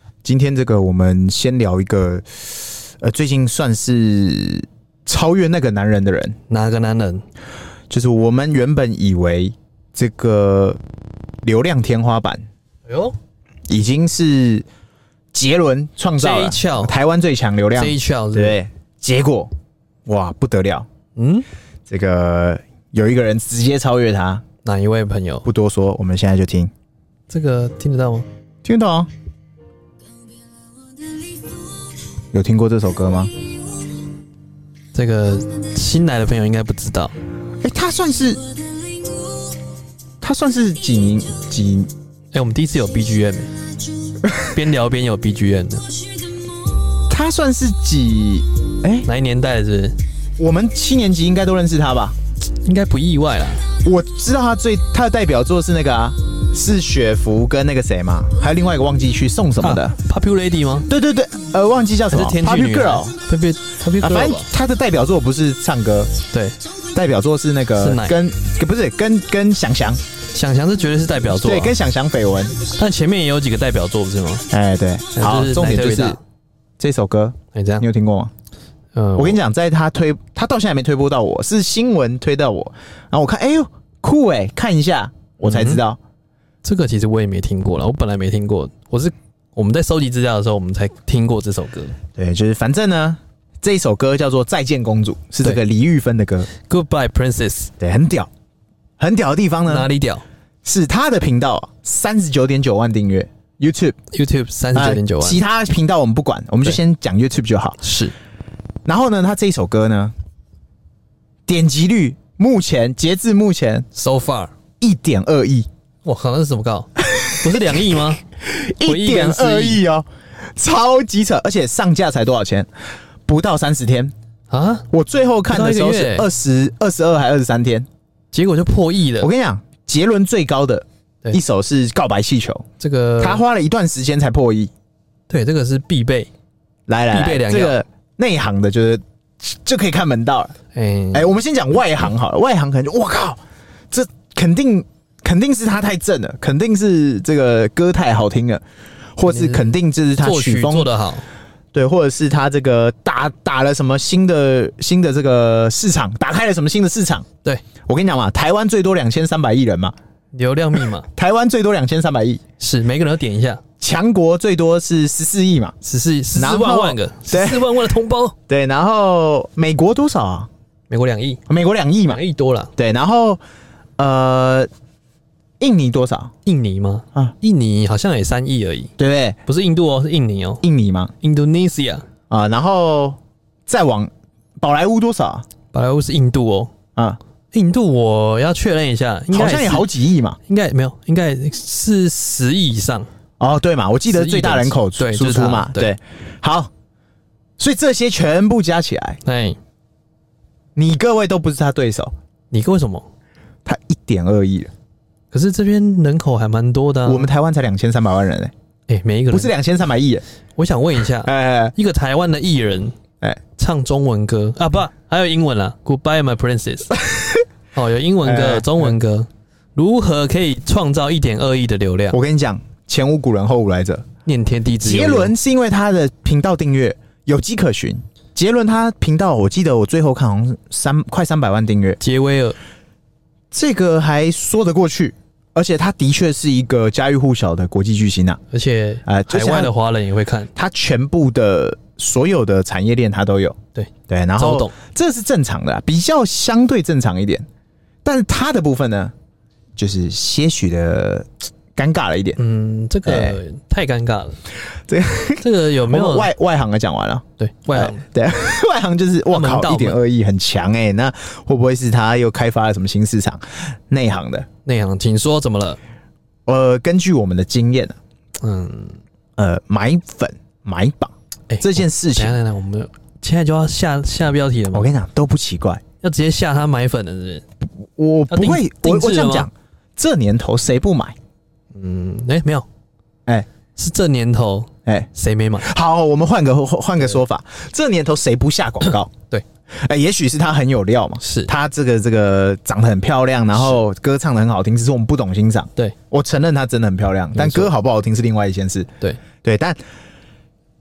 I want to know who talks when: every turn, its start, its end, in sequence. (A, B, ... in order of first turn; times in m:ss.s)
0:00.2-0:06.4 A
0:06.5-0:07.2 B
0:07.9-0:10.8 A
0:11.4-0:12.4 A
0:12.9-0:13.2 B
0:13.7-0:14.7 A
0:15.3-0:19.5 A
0:16.2-0:17.0 B
0:17.8-0:18.6 B
0:20.1-0:20.9 A
0:21.2-0:21.5 B
0:21.9-0:24.4 A
0:24.6-0:25.5 B
0:25.4-0:26.7 A
0:27.3-0:28.3 B
0:28.6-0:29.1 A
0:32.3-0:33.3 A
0:34.9-0:37.1 B
0:37.6-0:38.4 A
0:40.2-0:41.9 A
0:42.3-0:43.5 B
0:44.4-0:45.9 B
0:47.1-0:49.1 A
0:49.0-0:50.0 B
0:50.4-0:52.2 A
0:52.6-0:53.7 B
0:53.8-1:00.0 A
0:59.6-1:00.9 B
1:00.9-1:03.2 A
1:02.1-1:04.5 B
1:04.0-1:06.2 A
1:06.9-1:10.0 A
1:07.8-1:08.2 B
1:10.3-1:11.8 B
1:11.4-1:12.6 A
1:12.7-1:14.5 B
1:14.5-1:16.2 A
1:15.2-1:16.2 B
1:16.8-1:18.3 A
1:17.5-1:17.9 B
1:19.0-1:19.4 B
1:19.2-1:26.0 A
1:25.4-1:25.8 B
1:26.6-1:32.0 B
1:32.2-1:36.5 A
1:36.5-1:37.7 B
1:37.8-1:38.3 A
1:39.0-1:39.9 A
1:39.7-1:40.2 B
1:40.6-1:44.0 A
1:44.1-1:45.4 B
1:44.8-1:47.8 A
1:47.8-1:48.1 B
1:48.9-1:50.1 A
1:51.5-1:53.9 A
1:54.0-1:54.5 B
1:54.8-1:55.7 A
1:56.0-1:58.2 B
1:57.0-1:57.6 A
1:58.4-2:02.7 A
1:58.8-1:59.8 B
2:03.3-2:04.1 A
2:04.5-2:04.9 B
2:04.9-2:07.9 A
2:05.5-2:06.3 B
2:08.3-2:09.3 B
2:09.2-2:12.7 A
2:12.8-2:13.4 B
2:13.2-2:14.7 A
2:15.3-2:16.3 B
2:16.9-2:20.5 A
2:17.1-2:17.8 B
2:20.7-2:21.4 B
2:21.1-2:28.6 A
2:29.2-2:30.9 A
2:29.3-2:31.3 B
2:31.7-2:37.3 A
2:37.8-2:40.0 A
2:40.3-2:41.1 B
2:41.1-2:42.4 A
2:42.6-2:43.6 B
2:43.8-2:45.8 A
2:45.8-2:48.4 B
2:46.4-2:47.8 A
2:48.5-2:50.5 A
2:50.9-2:51.4 B
2:51.5-2:52.2 A
2:52.1-2:52.7 B
2:52.8-2:53.4 A
2:54.0-2:54.7 A
2:55.6-2:56.3 A
2:56.5-2:58.9 B
2:59.0-2:59.4 A
2:59.5-3:00.6 B
3:00.6-3:01.1 A
3:01.2-3:02.1 B
3:02.3-3:05.4 A
3:05.7-3:06.7 B
3:07.5-3:09.9 B
3:09.3-3:10.4 A
3:10.5-3:13.1 B
3:13.4-3:16.7 A
3:14.1-3:15.9 B
3:17.6-3:19.2 A
3:19.2-3:19.6 B
3:20.8-3:22.1 A
3:22.5-3:23.1 B
3:23.6-3:24.7 A
3:25.3-3:27.3 B
3:27.1-3:28.5 A
3:28.9-3:29.5 B
3:29.3-3:30.2 A
3:30.6-3:33.0 B
3:31.2-3:31.7 A
3:33.6-3:37.0 B
3:37.0-3:37.4 A
3:37.7-3:42.2 B
3:38.2-3:38.9 A
3:42.1-3:44.1 A
3:44.3-3:45.4 B
3:44.8-3:52.0 A
3:52.0-3:52.6 B
3:53.5-3:58.4 A
3:58.5-4:00.5 B
3:59.1-3:59.7 A
4:00.6-4:07.5 A
4:03.8-4:04.8 B
4:08.0-4:09.1 A
4:09.8-4:12.4 A
4:12.4-4:14.4 B
4:13.1-4:13.4 A
4:14.9-4:24.5 A
4:15.4-4:16.3 B
4:17.4-4:18.1 B
4:19.3-4:20.0 B
4:24.6-4:25.8 B
4:26.5-4:28.0 A
4:28.4-4:29.0 B
4:29.4-4:32.4 A
4:31.5-4:34.9 B
4:34.7-4:35.8 A
4:36.0-4:37.4 B
4:37.8-4:41.2 A
4:38.3-4:39.5 B
4:41.7-4:42.7 B
4:43.8-4:45.7 B
4:44.9-4:49.1 A
4:49.7-4:58.9 A
4:51.2-4:51.5 B
4:53.6-4:53.8 B
4:57.3-4:57.7 B
4:59.4-4:59.8 A